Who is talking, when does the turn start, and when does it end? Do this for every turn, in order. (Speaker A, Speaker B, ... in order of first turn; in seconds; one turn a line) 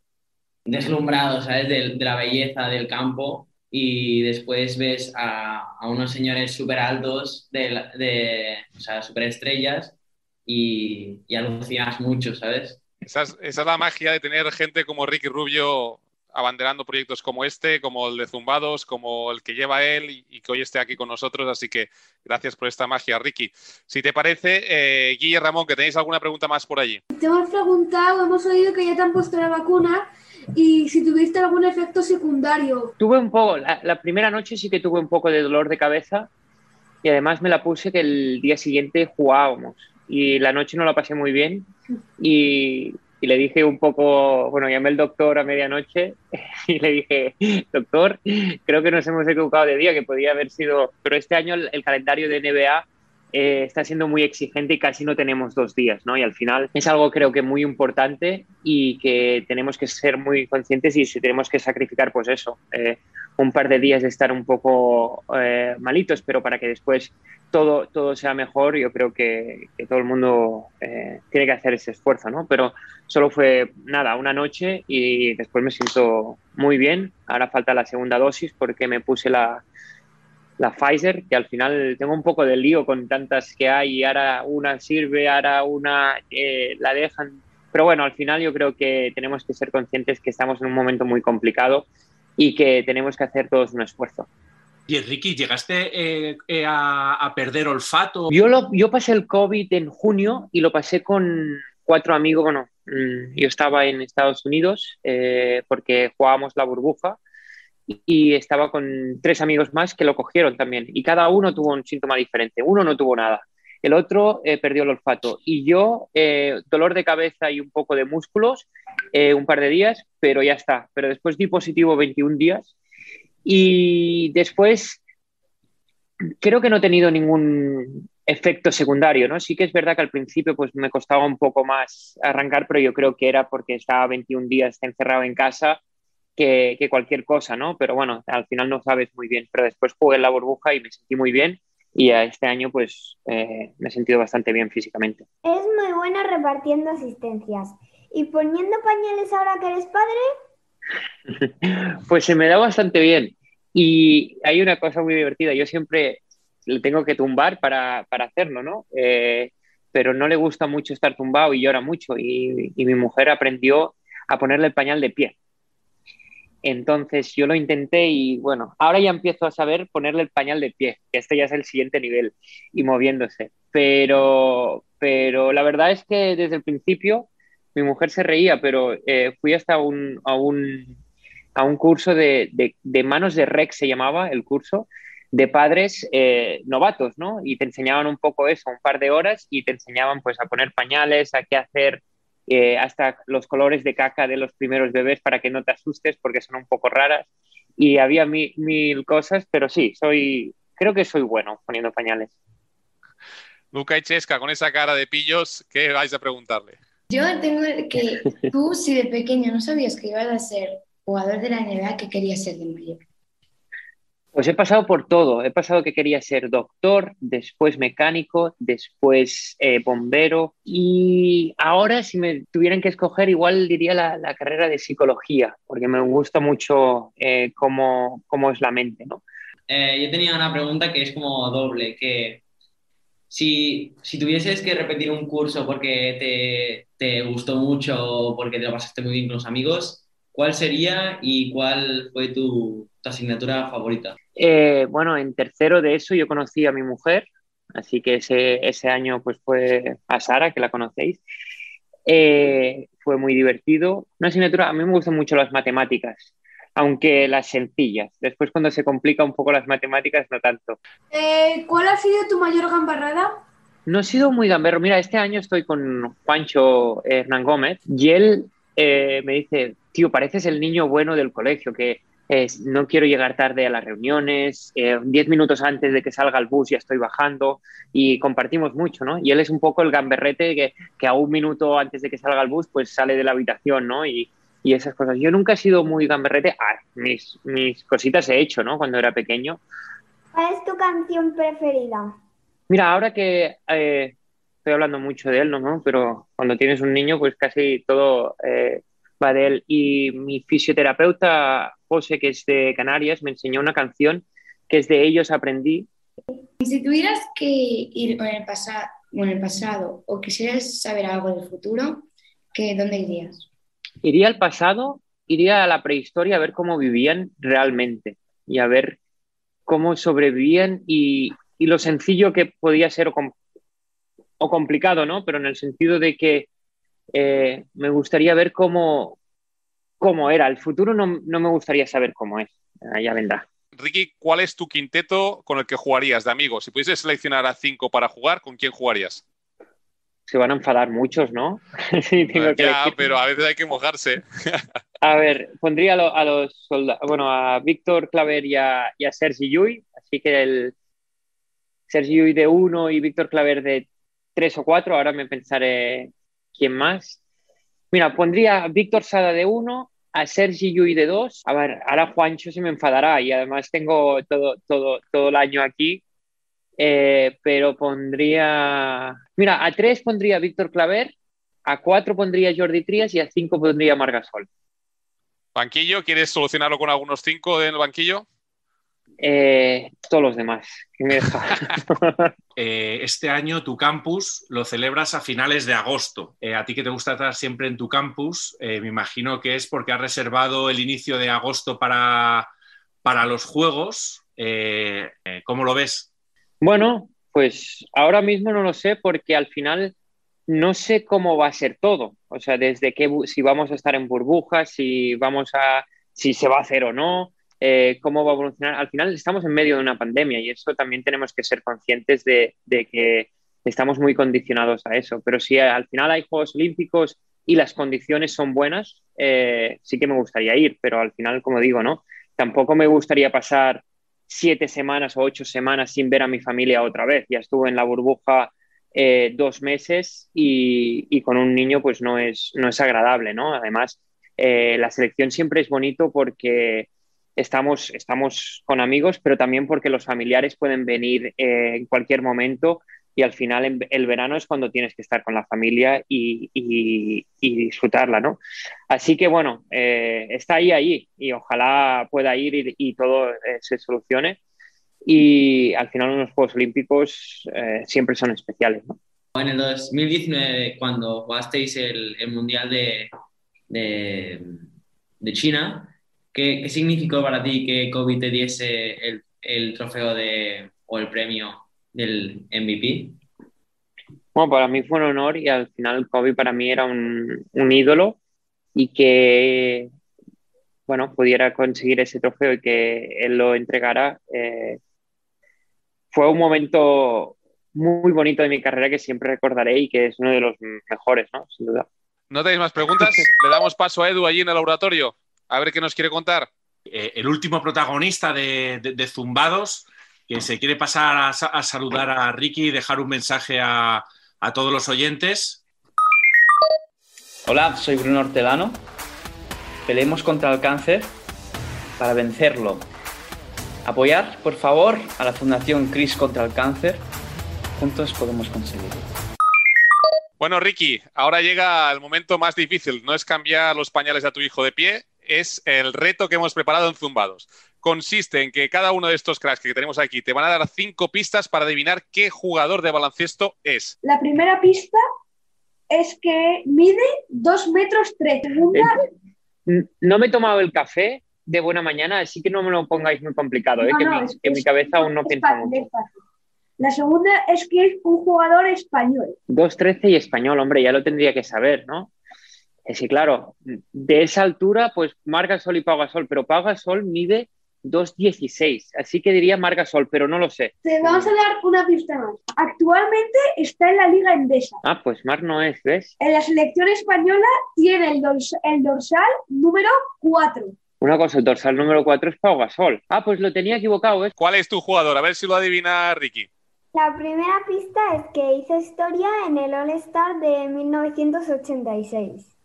Speaker A: 0.7-9.9
Speaker A: 10.4-12.8
Speaker B: 13.0-27.0
Speaker C: 27.1-32.9
Speaker D: 33.0-36.3
Speaker D: 37.0-79.6
Speaker D: 80.6-91.8
Speaker D: 92.4-94.3
Speaker E: 94.9-98.3
Speaker D: 98.3-107.2
Speaker D: 107.9-122.7
Speaker D: 123.4-125.0
Speaker D: 126.4-135.8
Speaker D: 136.4-145.2
Speaker F: 145.4-150.2
Speaker D: 151.3-165.3
Speaker D: 166.6-180.9
Speaker D: 181.6-197.3
Speaker D: 197.8-202.3
Speaker B: 203.7-206.8
Speaker G: 207.1-213.0
Speaker D: 214.3-229.2
Speaker A: 229.7-232.4
Speaker A: 233.3-244.2
Speaker D: 244.4-251.2
Speaker D: 252.1-260.8
Speaker C: 261.1-263.4
Speaker D: 263.9-289.6
Speaker F: 290.3-292.2
Speaker D: 292.7-305.9
Speaker G: 306.6-313.5
Speaker D: 314.0-319.0
Speaker D: 319.6-323.3
Speaker D: 324.4-326.5
Speaker D: 327.1-329.1
Speaker D: 330.0-333.4
Speaker B: 333.8-339.2
Speaker D: 340.3-343.0
Speaker B: 342.3-344.6
Speaker D: 345.0-350.7
Speaker D: 351.9-357.2
Speaker D: 357.9-366.0
Speaker D: 366.8-371.1
Speaker D: 371.6-374.5
Speaker B: 375.5-378.2
Speaker D: 379.2-382.3
Speaker E: 382.6-392.5
Speaker E: 393.0-396.1
Speaker D: 396.6-399.9
Speaker D: 400.5-448.4
Speaker D: 448.9-454.4
Speaker D: 455.0-458.9
Speaker A: 459.3-463.1
Speaker A: 463.7-464.6
Speaker A: 465.2-473.2
Speaker D: 474.3-478.2
Speaker D: 478.7-479.9
Speaker D: 480.9-484.8
Speaker D: 486.1-491.9
Speaker B: 492.3-496.5
Speaker E: 496.9-505.6
Speaker H: 507.4-508.8
Speaker H: 509.9-511.1
Speaker H: 512.0-512.9
Speaker H: 513.8-517.0
Speaker H: 517.8-519.0
Speaker B: 520.4-533.9
Speaker C: 534.0-535.0
Speaker C: 535.9-539.0
Speaker D: 539.6-545.9
Speaker C: 543.8-546.1
Speaker C: 546.8-549.3
Speaker D: 549.5-552.1
Speaker D: 552.9-561.3
Speaker C: 560.8-564.8
Speaker D: 564.8-566.1
Speaker C: 566.2-570.7
Speaker D: 571.0-574.3
Speaker B: 574.4-576.5
Speaker F: 576.9-582.5